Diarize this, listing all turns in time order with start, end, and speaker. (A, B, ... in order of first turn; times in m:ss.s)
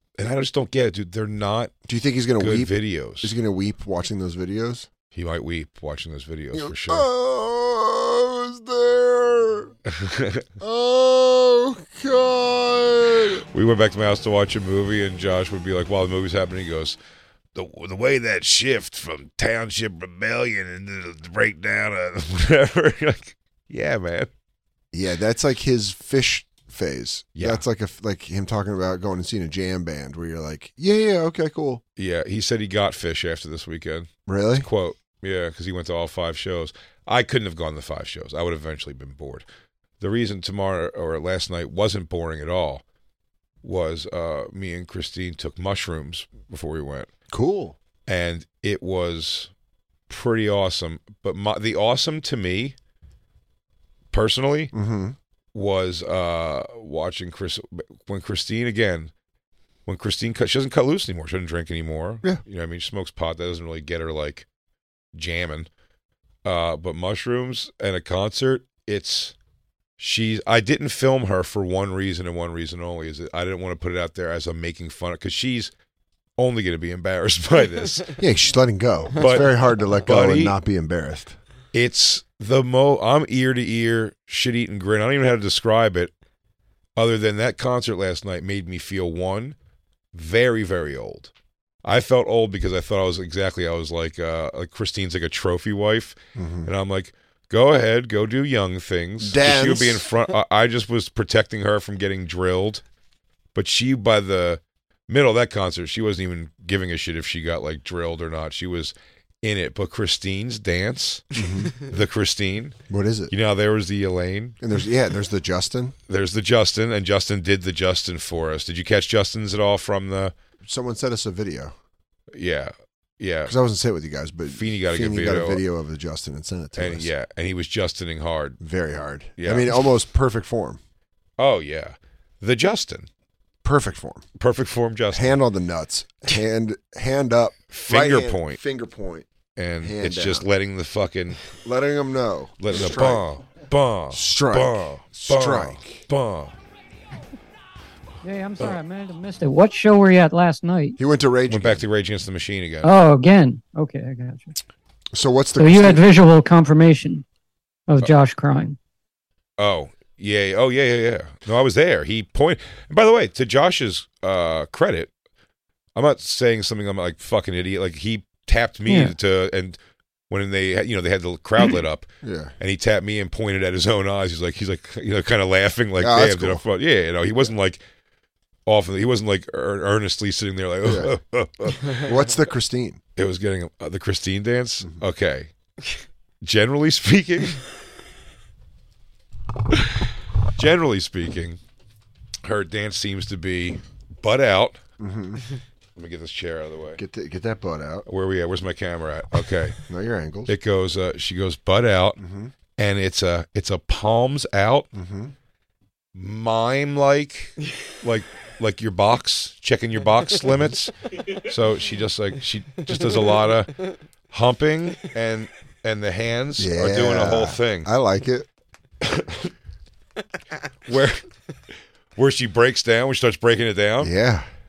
0:00.2-0:01.7 A
0:01.9-0:04.9 B
0:02.4-0:03.3 A
0:05.1-0:07.1 A
0:06.5-0:09.7 B
0:09.9-0:10.4 A
0:10.6-0:13.4 B
0:13.5-0:17.0 A
0:17.5-0:24.3 A
0:24.9-0:31.8 B
0:27.3-0:27.6 A
0:32.0-0:34.1 A
0:34.3-0:34.7 B
0:34.6-0:39.4 A
0:40.0-0:42.8 A
0:43.6-0:47.1 A
0:47.3-0:47.8 B
0:48.0-0:49.5 A
0:50.1-0:52.7 A
0:54.1-0:54.7 A
0:54.7-0:55.2 B
0:55.5-0:59.1 A
0:59.8-1:04.4 A
1:05.1-1:05.7 A
1:06.4-1:09.3 A
1:10.0-1:15.7 A
1:16.4-1:18.2 A
1:18.2-1:21.4 B
1:19.2-1:19.5 A
1:20.0-1:20.5 A
1:21.7-1:26.1 A
1:27.0-1:29.5 A
1:30.1-1:31.3 A
1:31.8-1:42.8 A
1:36.3-1:36.7 B
1:39.2-1:40.1 B
1:43.5-1:52.8 A
1:51.3-1:51.7 B
1:52.9-1:53.3 B
1:53.3-1:54.6 A
1:54.6-1:55.9 B
1:56.1-2:00.3 A
2:00.6-2:01.7 B
2:02.3-2:03.5 A
2:03.4-2:07.1 B
2:04.5-2:05.6 A
2:06.8-2:08.6 A
2:08.6-2:10.8 B
2:09.4-2:09.8 A
2:11.4-2:13.1 A
2:13.6-2:14.2 B
2:14.4-2:15.3 A
2:15.1-2:19.3 B
2:17.7-2:18.6 A
2:19.6-2:21.4 A
2:19.8-2:20.4 B
2:21.6-2:23.2 B
2:22.6-2:26.5 A
2:24.1-2:26.0 B
2:28.2-2:31.0 C
2:31.0-2:31.8 B
2:31.5-2:32.9 A
2:32.8-2:34.5 C
2:35.1-2:36.0 B
2:35.6-2:37.2 C
2:37.9-2:38.8 C
2:39.6-2:45.1 A
2:46.0-2:49.8 A
2:48.9-2:49.1 C
2:50.3-2:52.1 A
2:52.2-2:52.5 B
2:52.6-2:57.8 A
2:56.0-2:56.6 B
2:58.6-3:02.0 A
3:00.8-3:01.1 B
3:01.9-3:03.0 B
3:03.2-3:05.5 A
3:06.4-3:07.6 A
3:10.6-3:11.6 A
3:12.4-3:14.8 A
3:15.0-3:15.4 B
3:16.0-3:17.0 A
3:17.0-3:18.0 B
3:18.1-3:19.8 A
3:19.9-3:20.5 B
3:20.5-3:22.2 A
3:22.2-3:22.5 B
3:22.8-3:24.9 A
3:24.9-3:25.3 B
3:26.1-3:33.7 A
3:34.3-3:37.9 A
3:36.6-3:38.5 B
3:39.0-3:39.5 A
3:40.9-3:41.2 A
3:42.2-3:44.1 A
3:44.0-3:44.5 B